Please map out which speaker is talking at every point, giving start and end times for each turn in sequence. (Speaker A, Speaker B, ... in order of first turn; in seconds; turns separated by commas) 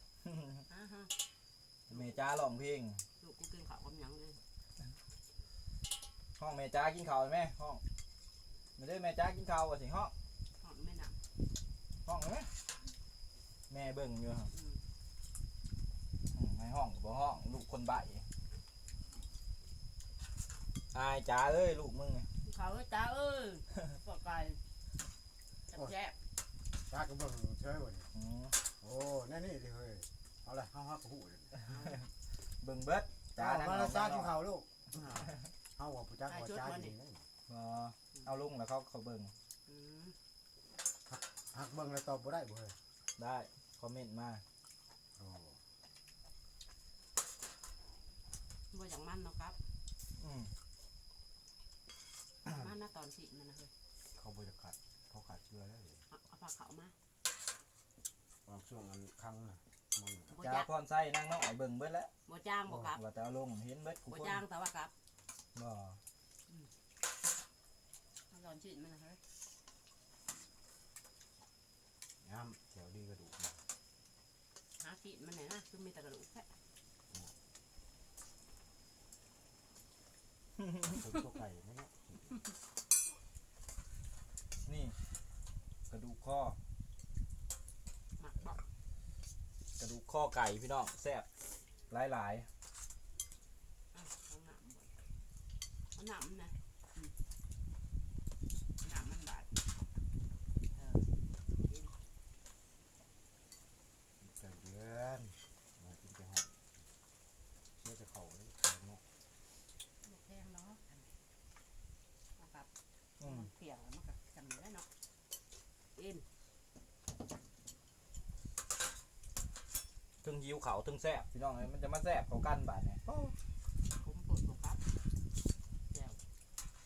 Speaker A: 0.3-0.6, Speaker B: 0.7-1.1, Speaker A: 1.9-3.0, Speaker B: 1.9-2.2, Speaker B: 3.2-4.4, Speaker A: 6.4-7.8, Speaker A: 8.8-10.1, Speaker B: 10.6-11.2, Speaker A: 12.0-12.5, Speaker A: 13.7-14.5, Speaker B: 14.5-14.8, Speaker A: 16.3-18.2, Speaker A: 20.9-22.3, Speaker B: 22.4-24.6, Speaker B: 25.7-26.1, Speaker C: 26.8-28.1, Speaker A: 28.1-28.5, Speaker C: 28.8-31.6, Speaker B: 31.7-32.0, Speaker A: 32.6-34.3, Speaker C: 33.4-37.2, Speaker B: 36.3-36.9, Speaker A: 37.5-39.3, Speaker B: 39.7-40.1, Speaker C: 41.0-42.8, Speaker A: 43.2-44.4, Speaker C: 45.1-45.6, Speaker B: 48.7-49.6, Speaker A: 50.2-50.5, Speaker B: 52.5-53.7, Speaker C: 54.1-56.0, Speaker B: 56.1-56.9, Speaker C: 58.5-60.4, Speaker B: 60.3-60.7, Speaker A: 60.4-62.1, Speaker B: 62.2-63.0, Speaker A: 62.7-64.4, Speaker B: 64.1-64.9, Speaker A: 65.5-66.0, Speaker B: 68.3-69.2, Speaker C: 72.2-73.6, Speaker B: 74.8-76.5, Speaker C: 80.8-82.4, Speaker A: 84.6-85.0, Speaker A: 85.9-86.6, Speaker B: 88.2-88.6, Speaker A: 89.8-91.2, Speaker A: 91.9-92.5, Speaker B: 93.9-95.0, Speaker B: 95.9-97.1, Speaker B: 98.8-99.5, Speaker B: 100.7-101.1, Speaker B: 101.6-101.9, Speaker C: 104.2-106.5, Speaker C: 107.8-109.0, Speaker B: 110.0-111.1, Speaker B: 112.4-112.7, Speaker A: 113.2-113.5, Speaker B: 113.2-114.9, Speaker B: 116.0-116.2, Speaker A: 120.2-123.3, Speaker B: 123.9-124.8, Speaker B: 125.9-126.2